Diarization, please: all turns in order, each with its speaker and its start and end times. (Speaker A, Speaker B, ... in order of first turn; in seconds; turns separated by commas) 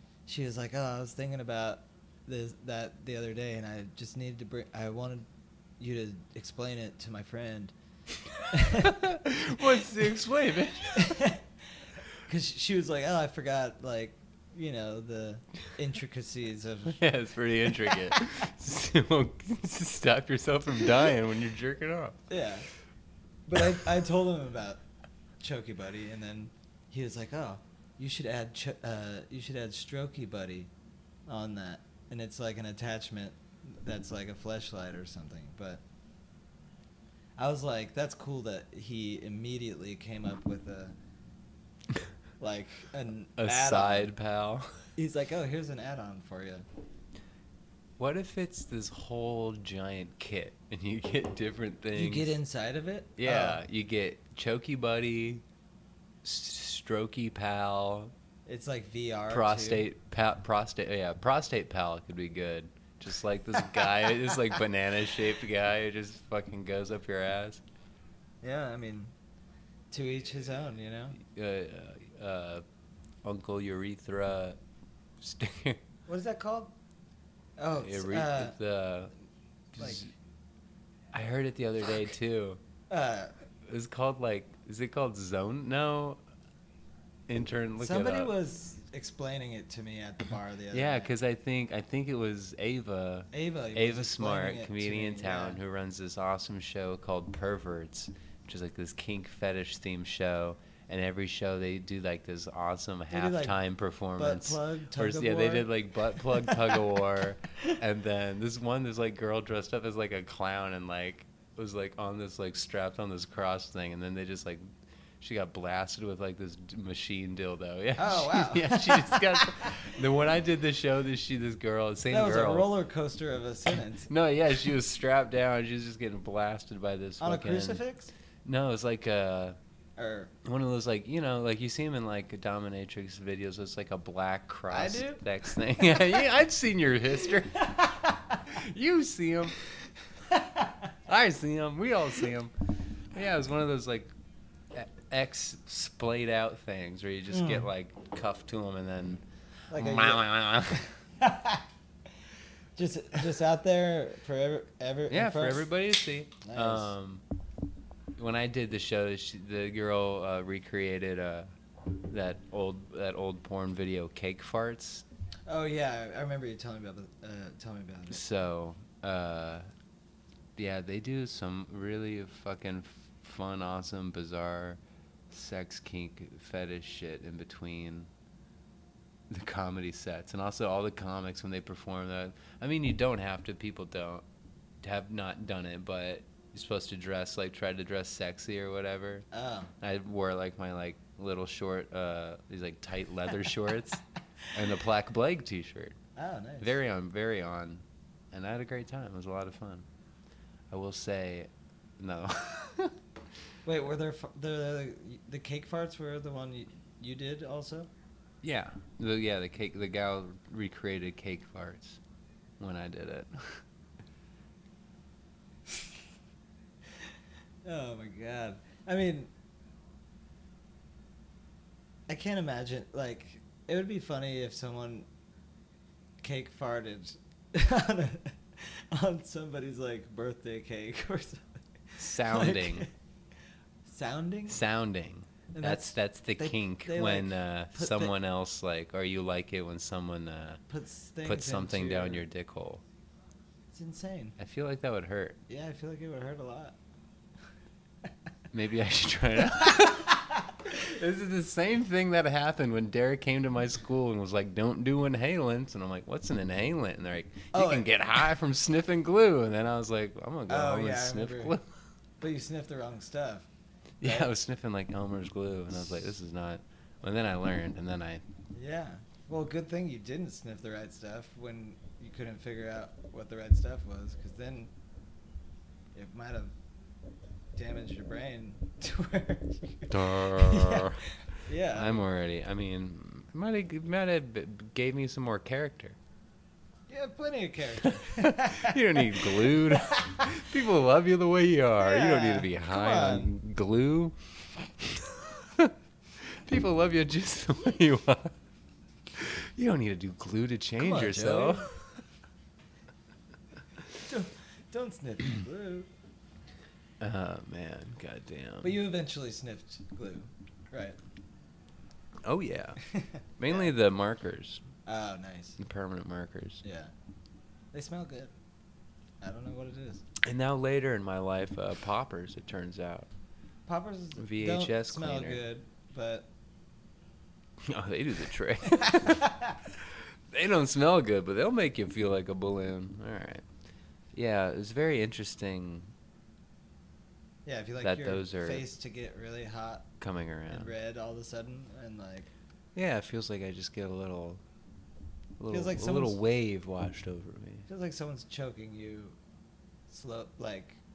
Speaker A: 0.3-5.3, Speaker A: 5.8-7.7, Speaker A: 8.5-9.0, Speaker B: 8.5-11.3, Speaker A: 10.9-11.4, Speaker A: 12.2-17.0, Speaker B: 16.9-22.2, Speaker A: 17.6-18.3, Speaker A: 22.3-22.7, Speaker A: 23.5-24.8, Speaker A: 25.4-30.7, Speaker A: 31.3-35.8, Speaker A: 37.4-41.0, Speaker A: 42.4-44.1, Speaker B: 43.4-44.8, Speaker A: 45.0-46.7, Speaker B: 48.0-52.4, Speaker A: 52.0-53.6, Speaker B: 53.2-55.4, Speaker B: 56.2-58.1, Speaker A: 58.5-59.9, Speaker B: 59.3-67.6, Speaker A: 68.4-69.1, Speaker A: 69.9-71.2, Speaker B: 71.2-72.6, Speaker B: 73.2-74.6, Speaker B: 75.2-75.8, Speaker A: 76.1-76.8, Speaker A: 77.6-78.6, Speaker B: 77.8-79.1, Speaker B: 79.8-80.1, Speaker A: 79.8-80.0, Speaker B: 81.1-82.6, Speaker A: 82.9-83.3, Speaker B: 83.7-86.2, Speaker B: 87.3-88.3, Speaker A: 87.8-91.1, Speaker B: 90.7-114.6, Speaker A: 93.3-95.6, Speaker A: 103.1-103.6, Speaker A: 104.2-106.8, Speaker B: 115.2-122.7, Speaker A: 118.0-119.8, Speaker A: 122.1-124.1, Speaker B: 124.1-127.8, Speaker A: 127.2-128.1, Speaker B: 128.4-129.6, Speaker A: 130.0-130.3, Speaker B: 130.4-139.6, Speaker A: 134.7-135.2, Speaker A: 135.8-136.2, Speaker A: 137.7-138.4, Speaker A: 140.3-140.8, Speaker B: 141.1-142.5, Speaker B: 143.1-144.1, Speaker B: 144.7-150.9, Speaker A: 147.3-147.7, Speaker A: 149.7-150.3, Speaker A: 151.2-151.7, Speaker A: 152.8-155.7, Speaker B: 155.1-157.2, Speaker A: 156.4-156.9, Speaker B: 158.2-161.5, Speaker B: 162.1-165.1, Speaker A: 165.5-168.2, Speaker B: 168.1-169.7, Speaker B: 170.6-178.1, Speaker B: 179.3-184.2, Speaker B: 184.8-189.3, Speaker A: 189.3-189.7, Speaker B: 189.8-196.0, Speaker A: 196.2-196.7, Speaker B: 196.6-199.9, Speaker B: 200.7-203.0, Speaker A: 203.7-207.9, Speaker B: 208.4-212.0, Speaker B: 212.6-213.7, Speaker A: 217.6-219.3, Speaker A: 222.1-225.1, Speaker A: 226.2-232.9, Speaker B: 232.0-232.9, Speaker A: 233.8-234.6, Speaker B: 234.5-240.6, Speaker A: 235.5-238.1, Speaker A: 240.7-242.2, Speaker B: 241.2-242.8, Speaker A: 243.7-244.3, Speaker B: 244.4-245.4, Speaker A: 245.5-246.8, Speaker B: 248.5-261.7, Speaker A: 257.5-257.9, Speaker A: 260.5-261.6, Speaker A: 262.2-263.5, Speaker B: 264.0-268.2, Speaker A: 264.0-264.3, Speaker A: 268.5-274.7, Speaker A: 275.9-276.5, Speaker A: 277.6-282.0, Speaker B: 279.9-281.1, Speaker B: 281.7-286.0, Speaker A: 286.9-290.3, Speaker B: 287.8-294.2, Speaker A: 291.8-293.3, Speaker B: 294.8-298.4, Speaker B: 299.1-301.9, Speaker A: 300.8-301.7, Speaker A: 304.0-305.9, Speaker B: 307.0-308.8, Speaker A: 308.6-311.0, Speaker B: 312.2-312.9, Speaker A: 312.8-313.7, Speaker B: 313.4-314.6, Speaker A: 314.9-315.6, Speaker B: 315.6-316.6, Speaker A: 316.6-316.9, Speaker A: 317.7-318.4, Speaker A: 319.2-320.0, Speaker B: 320.2-323.1, Speaker A: 323.7-326.3, Speaker B: 324.2-325.4, Speaker B: 327.6-333.5, Speaker A: 328.9-329.5, Speaker B: 334.1-335.9, Speaker A: 337.4-339.9, Speaker B: 337.8-338.6, Speaker B: 340.0-340.7, Speaker A: 340.5-342.3, Speaker B: 342.8-344.4, Speaker B: 345.4-347.7, Speaker A: 345.5-346.2, Speaker A: 347.7-349.2, Speaker A: 349.9-350.8